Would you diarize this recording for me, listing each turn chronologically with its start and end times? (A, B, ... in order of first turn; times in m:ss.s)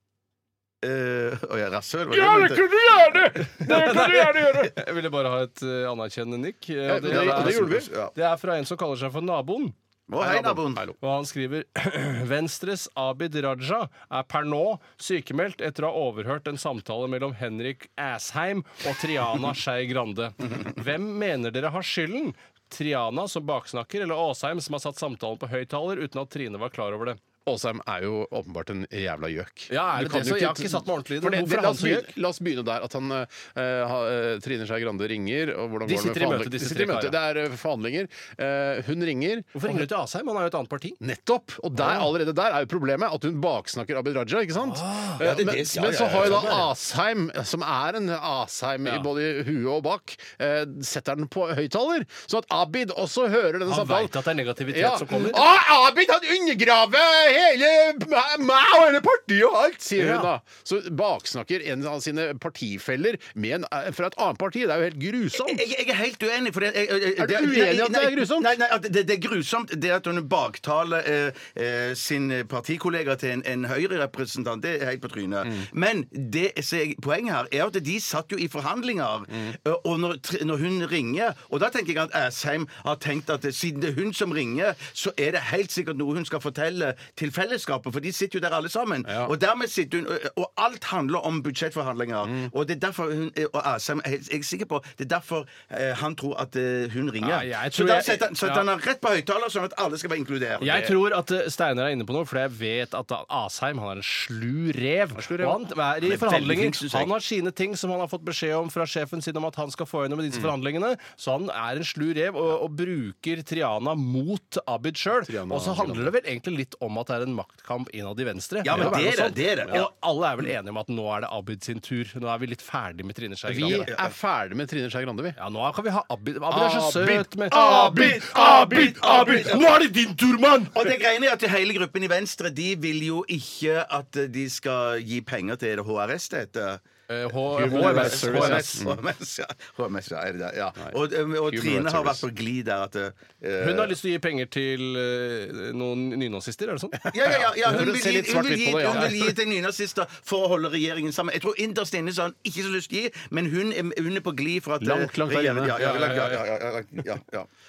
0:00.8-0:02.6 A
0:02.1-0:04.7 B
0:03.5-0:27.2 C
0:06.9-0:07.9 B
0:07.1-0:08.1 A
0:10.1-0:10.8 A
0:10.4-0:10.9 B
0:27.4-0:39.9 B
0:29.7-0:32.1 C
0:35.8-0:37.2 C
0:39.5-0:41.0 C
0:41.0-0:54.2 B
0:44.6-0:45.2 C
0:45.2-0:46.6 A
0:46.1-0:46.6 C
0:53.7-0:55.4 C
0:54.7-1:05.6 B
1:00.0-1:00.3 C
1:05.4-1:40.9 A
1:07.2-1:08.5 B
1:29.0-1:29.3 B
1:32.2-1:32.5 B
1:37.2-1:38.6 C
1:40.6-2:03.9 C
1:45.1-1:45.6 B
1:46.0-1:47.1 A
1:55.2-1:56.1 B
1:58.6-1:59.9 A
1:58.7-1:59.0 B
2:03.5-2:05.4 B
2:03.6-2:04.1 A
2:05.4-2:10.7 C
2:06.5-2:09.7 B
2:07.5-2:09.7 A
2:10.7-2:16.8 A
2:17.1-2:18.8 C
2:17.5-2:19.0 B
2:17.6-2:23.9 A
2:21.4-2:22.2 B
2:23.6-2:27.1 C
2:27.1-2:37.5 A
2:27.3-2:29.4 B
2:34.8-2:35.8 B
2:35.8-2:36.4 C